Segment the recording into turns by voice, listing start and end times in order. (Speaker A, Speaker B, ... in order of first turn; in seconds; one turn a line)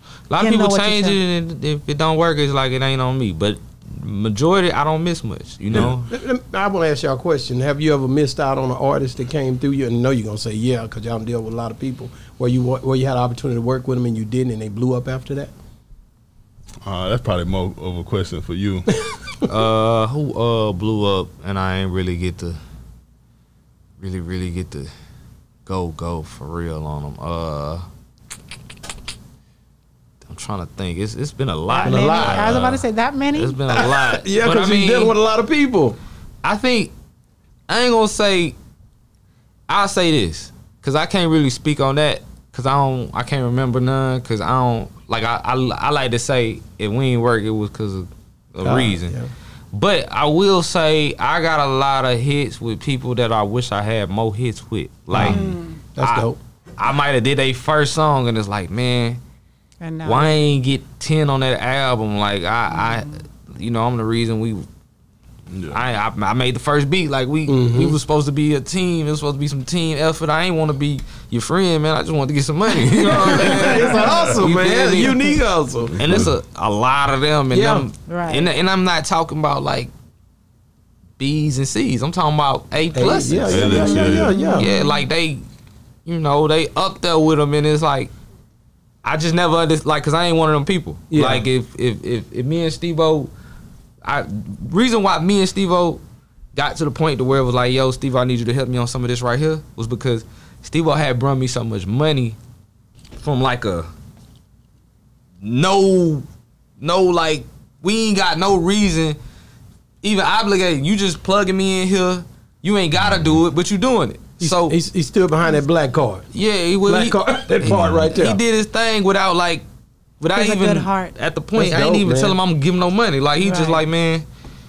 Speaker A: 0.3-6.1
Speaker B: 0.4-1.2
Speaker C: 5.7-6.0
Speaker D: 5.7-15.5
Speaker C: 16.9-18.9
Speaker A: 19.5-22.6
Speaker A: 24.0-24.9
Speaker A: 25.7-27.9
Speaker A: 30.2-32.8
Speaker B: 31.7-33.8
Speaker D: 31.8-32.5
Speaker A: 33.4-35.1
Speaker D: 33.7-36.0
Speaker A: 36.4-36.9
Speaker A: 37.7-38.5
Speaker A: 39.7-49.2
Speaker D: 48.6-49.3
Speaker A: 49.7-59.2
Speaker D: 55.1-56.4
Speaker B: 55.2-55.8
Speaker B: 59.8-60.5
Speaker A: 60.0-64.7
Speaker B: 62.7-63.2
Speaker C: 65.5-65.8
Speaker A: 65.7-75.4
Speaker D: 67.5-68.0
Speaker D: 72.8-76.3
Speaker C: 73.3-74.2
Speaker C: 75.9-76.3
Speaker A: 76.0-79.9
Speaker D: 77.5-77.9
Speaker B: 78.1-78.5
Speaker A: 81.2-85.4
Speaker D: 82.9-84.7
Speaker C: 83.5-84.4
Speaker B: 83.5-85.0
Speaker A: 86.1-88.1
Speaker A: 89.0-93.3
Speaker D: 91.1-91.5
Speaker A: 94.0-96.0
Speaker A: 96.5-102.4
Speaker A: 103.2-103.9
Speaker A: 105.4-106.3
Speaker A: 106.8-109.2
Speaker A: 110.0-114.8
Speaker C: 113.0-113.3
Speaker D: 114.4-116.3
Speaker A: 116.3-119.7
Speaker D: 116.9-118.4
Speaker C: 117.7-118.0
Speaker A: 120.2-124.2
Speaker B: 120.3-121.1
Speaker D: 121.6-122.4
Speaker B: 123.4-123.9